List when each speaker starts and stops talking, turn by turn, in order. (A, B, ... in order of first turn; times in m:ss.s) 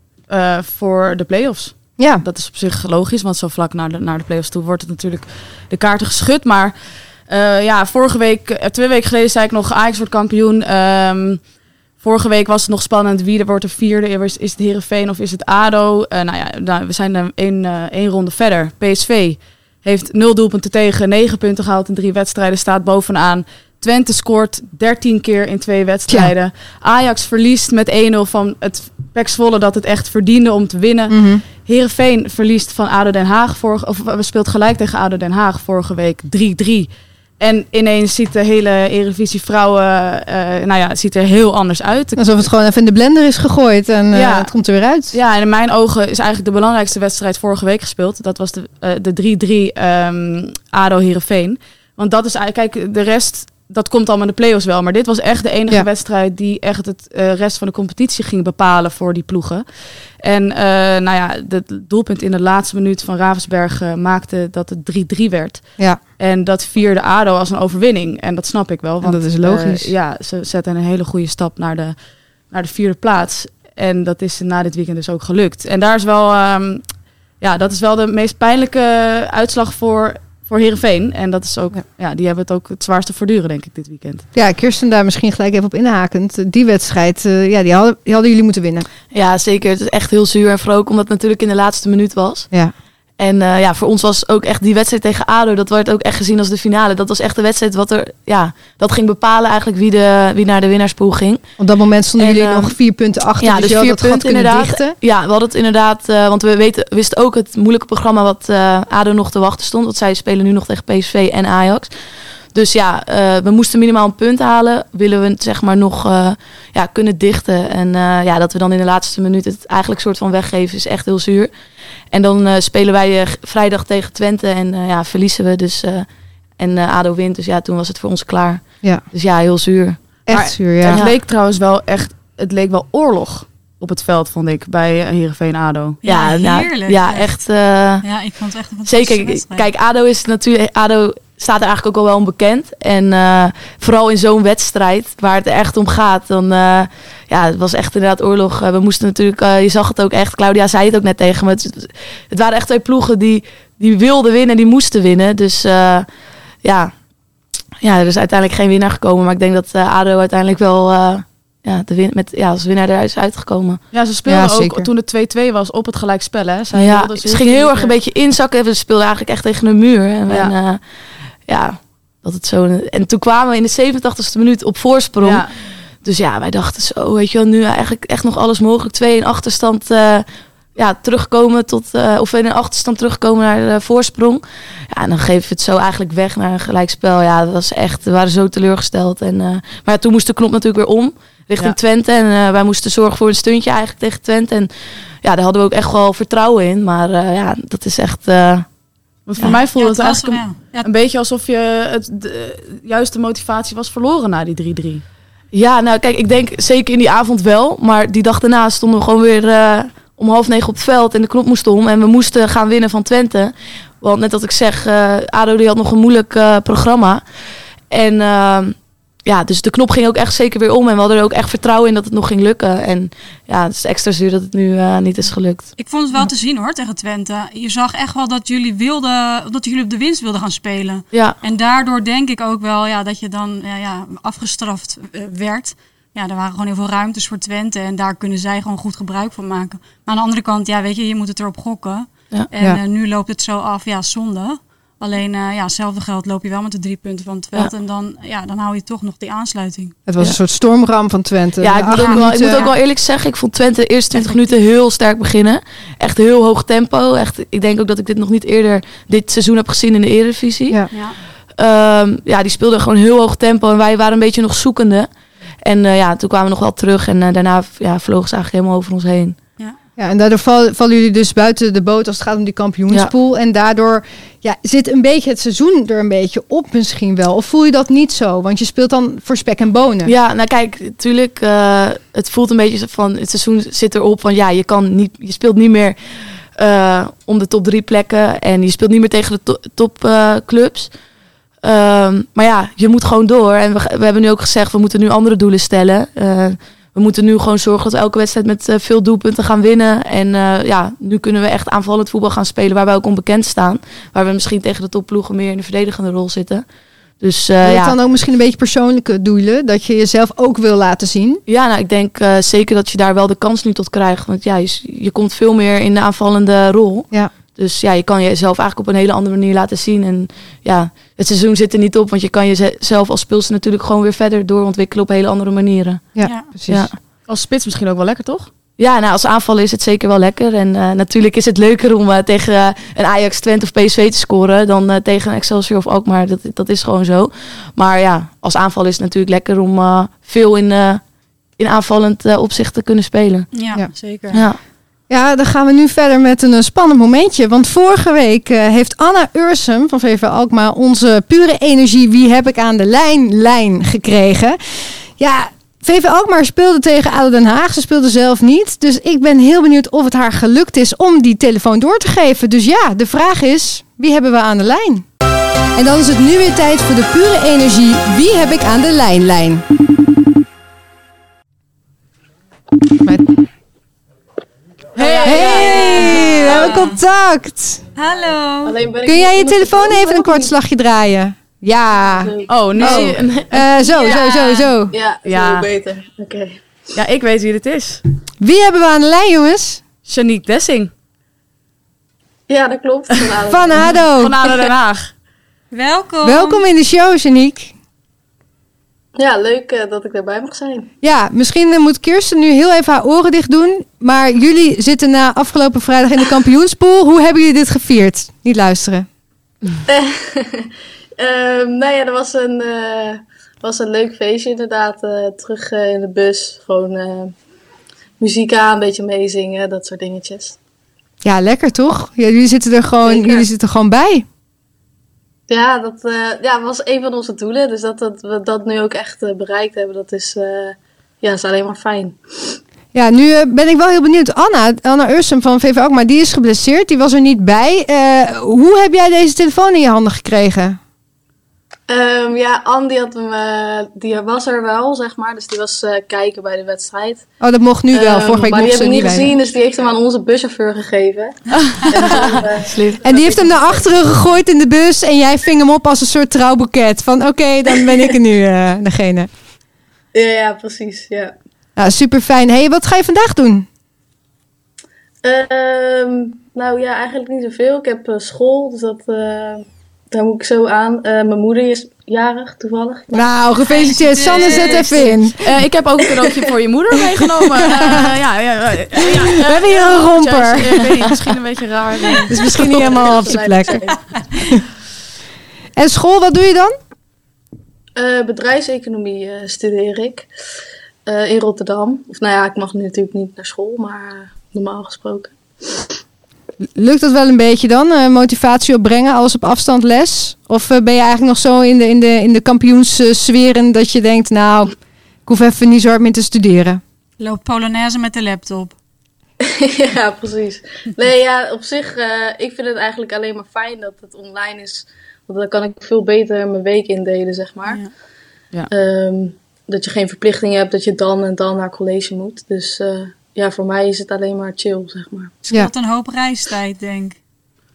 0:00.3-0:42.5 A
0:02.0-0:02.2 B
0:26.1-0:26.3 B
0:31.1-0:31.4 B
0:42.2-0:45.1 B
0:44.1-0:44.5 A
0:45.1-1:12.0 A
1:09.0-1:09.9 B
1:12.5-1:24.2 A
1:24.3-1:28.8 B
1:29.1-1:32.5 C
1:33.2-1:41.5 C
1:41.6-1:44.9 B
1:42.2-1:42.8 C
1:43.4-1:51.9 C
1:52.5-2:01.5 C
2:02.1-2:11.2 C
2:10.3-2:11.0 B
2:10.3-2:16.0 A
2:16.0-2:17.3 D
2:16.0-2:18.0 C
2:18.0-2:19.6 D
2:18.8-2:36.1 C
2:36.6-2:36.9 C
2:37.8-2:43.8 C
2:43.9-2:47.9 A
2:44.3-2:44.9 B
2:46.7-2:50.8 C
2:51.4-3:18.7 C
2:55.2-2:55.5 A
3:19.3-3:25.0 A
3:19.4-3:20.9 D
3:25.5-3:37.2 C
3:37.9-3:45.7 C
3:45.8-4:10.0 D
3:51.1-3:51.4 C
4:10.1-4:12.6 B
4:11.6-4:21.0 C
4:11.9-4:12.7 D
4:14.1-4:14.4 D
4:20.9-4:21.2 D
4:21.6-4:25.1 C
4:25.6-4:29.4 C
4:30.0-4:40.1 B
4:40.0-4:50.9 C
4:51.6-5:06.6 C
5:07.2-5:08.0 C
5:07.6-5:11.4 B
5:11.5-5:27.0 C
5:26.1-5:26.8 B
5:27.3-5:28.5 A
5:28.8-5:41.0 C
5:41.6-5:43.5 C
5:43.5-5:44.4 D
5:44.3-5:44.6 C
5:45.1-6:05.0 B
6:05.8-6:09.6 B
6:14.9-6:16.7 A
6:15.2-6:17.8 B
6:15.4-6:17.0 D
6:18.0-6:18.8 D
6:18.6-6:20.5 E
6:19.0-6:24.9 B
6:22.0-6:23.2 E
6:22.5-6:23.6 A
6:23.8-6:24.7 D
6:23.9-6:26.6 E
6:25.2-6:25.7 A
6:26.9-6:28.0 A
6:28.4-6:29.8 B
6:30.0-6:30.9 A
6:32.5-6:34.0 E
6:33.5-6:34.3 B
6:34.2-6:35.1 A
6:35.7-6:36.6 D
6:36.2-6:37.7 B
6:39.2-6:40.9 E
6:41.0-6:49.1 B
6:49.9-6:57.3 E
6:58.2-7:00.6 E
7:01.2-7:04.2 B
7:03.0-7:03.4 E
7:05.5-7:12.6 E
7:12.9-7:20.8 B
7:21.9-7:27.3 E
7:27.4-7:29.3 B
7:27.9-7:34.0 E
7:31.6-7:31.8 A
7:32.6-7:33.0 C
7:33.0-7:39.3 B
7:40.1-7:41.3 E
7:41.8-7:43.6 B
7:45.2-7:53.4 E
7:53.1-7:55.4 B
7:53.7-7:55.1 D
7:54.5-7:55.1 E
7:55.4-8:03.1 A
7:59.4-8:01.2 B
8:02.3-8:03.8 B
8:02.5-8:04.0 E
8:05.8-8:06.7 B
8:08.0-8:10.3 E
8:11.0-8:15.9 E
8:16.8-8:24.7 B
8:25.2-8:26.8 B
8:27.2-8:28.7 D
8:29.4-8:37.9 E
8:38.7-8:45.4 E
8:45.4-8:47.2 D